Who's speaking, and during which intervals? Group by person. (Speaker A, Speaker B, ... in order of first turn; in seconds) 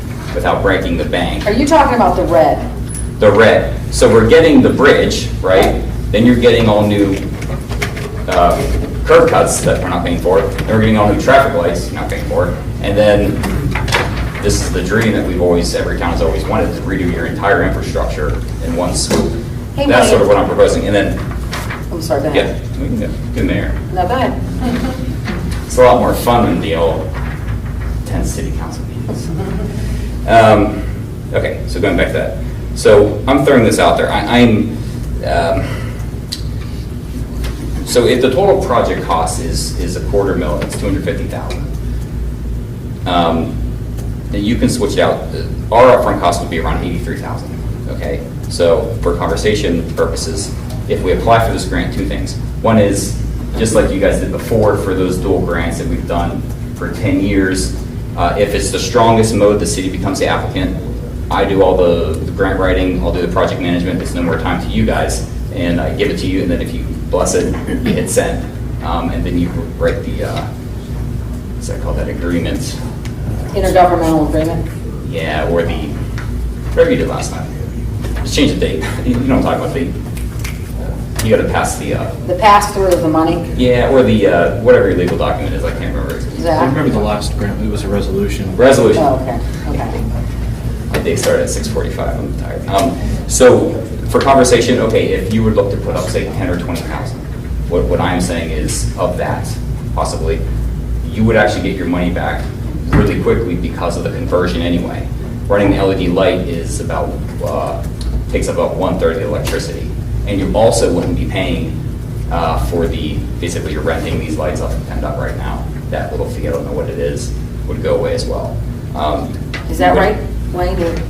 Speaker A: 0.3-1.5, 3.2-7.2, 8.3-13.4, 14.4-19.3, 19.8-21.2, 22.3-23.8, 25.7-27.1, 28.0-29.3, 30.2-30.8, 31.3-35.8, 37.8-41.7, 43.0-43.5, 44.3-60.8, 61.3-70.5, 71.6-72.8, 75.0-75.9, 76.7-77.5, 78.2-79.9, 81.2-82.1, 83.5-86.7, 88.5-89.1, 90.9-100.4, 101.0-111.8, 112.3-120.1
Speaker B: 1.4-2.7, 19.8-20.3, 21.9-22.5, 23.9-24.4, 73.5-74.6, 82.2-83.5, 86.4-86.8, 89.0-90.0, 119.7-121.0
Speaker C: 86.5-88.6